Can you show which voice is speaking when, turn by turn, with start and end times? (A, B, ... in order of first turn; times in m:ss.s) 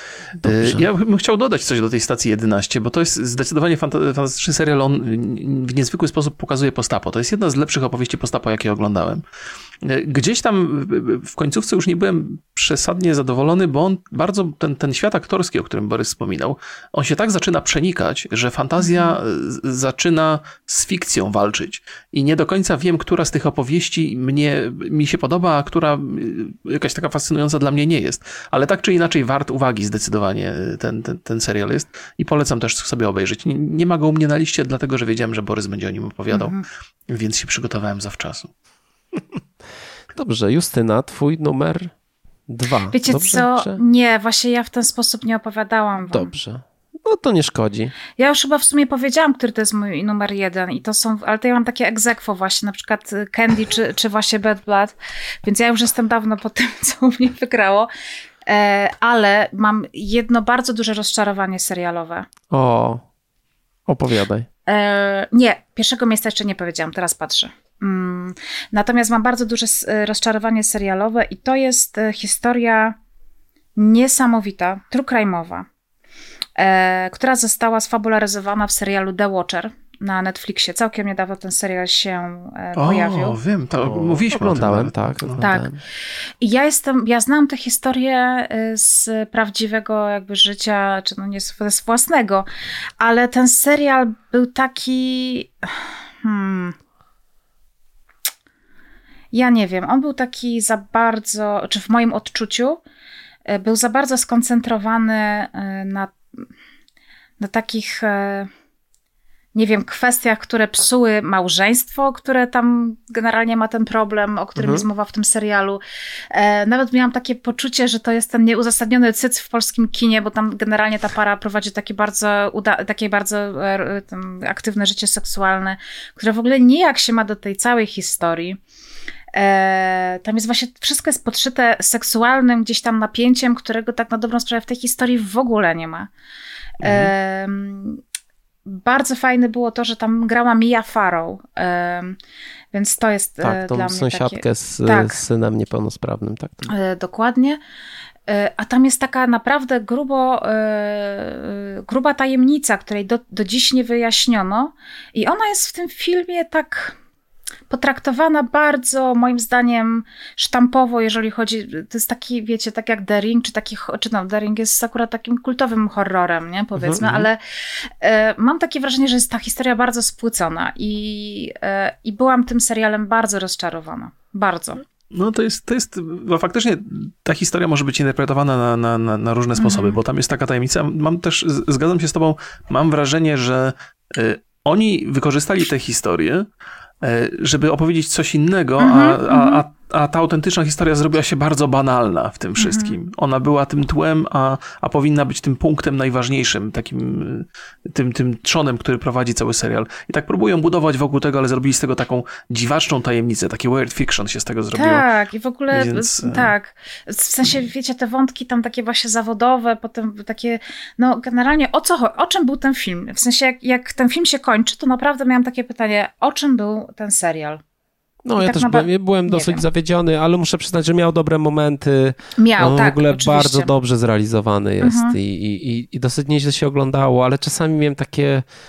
0:00.4-0:09.2 A
0:00.4-0:00.9 B
0:09.8-0:36.6 A
0:18.8-0:19.2 C
0:36.3-0:36.6 C
0:37.1-0:38.5 A
0:40.2-0:41.9 B
0:42.5-0:43.8 B
0:42.9-0:46.3 C
0:46.1-0:48.0 B
0:48.2-0:57.9 C
0:58.5-1:02.3 C
1:02.5-1:03.0 B
1:03.9-1:04.5 B
1:04.7-1:13.0 C
1:13.8-1:15.7 C
1:16.6-1:23.4 C
1:22.8-1:25.4 A
1:23.8-1:25.8 B
1:25.4-1:25.7 C
1:26.4-1:32.5 C
1:33.0-1:36.8 C
1:39.3-1:42.8 C
1:43.5-1:46.2 C
1:47.4-1:48.5 C
1:49.5-2:08.6 C
1:54.6-1:54.8 B
2:09.3-2:16.1 C
2:16.8-2:17.1 A
2:16.8-2:18.0 C
2:18.7-2:22.2 C
2:22.7-2:25.2 C
2:23.4-2:26.7 B
2:26.7-2:27.6 C
2:28.3-2:37.0 C
2:37.7-2:54.8 C
2:55.1-3:06.5 A
2:59.6-3:00.0 C
3:07.0-3:25.0 A
3:08.8-3:09.6 C
3:12.6-3:13.0 C
3:24.8-3:37.6 C
3:25.7-3:26.5 A
3:38.2-3:48.4 B
3:38.4-3:39.6 C
3:42.4-3:43.7 C
3:44.8-3:45.2 C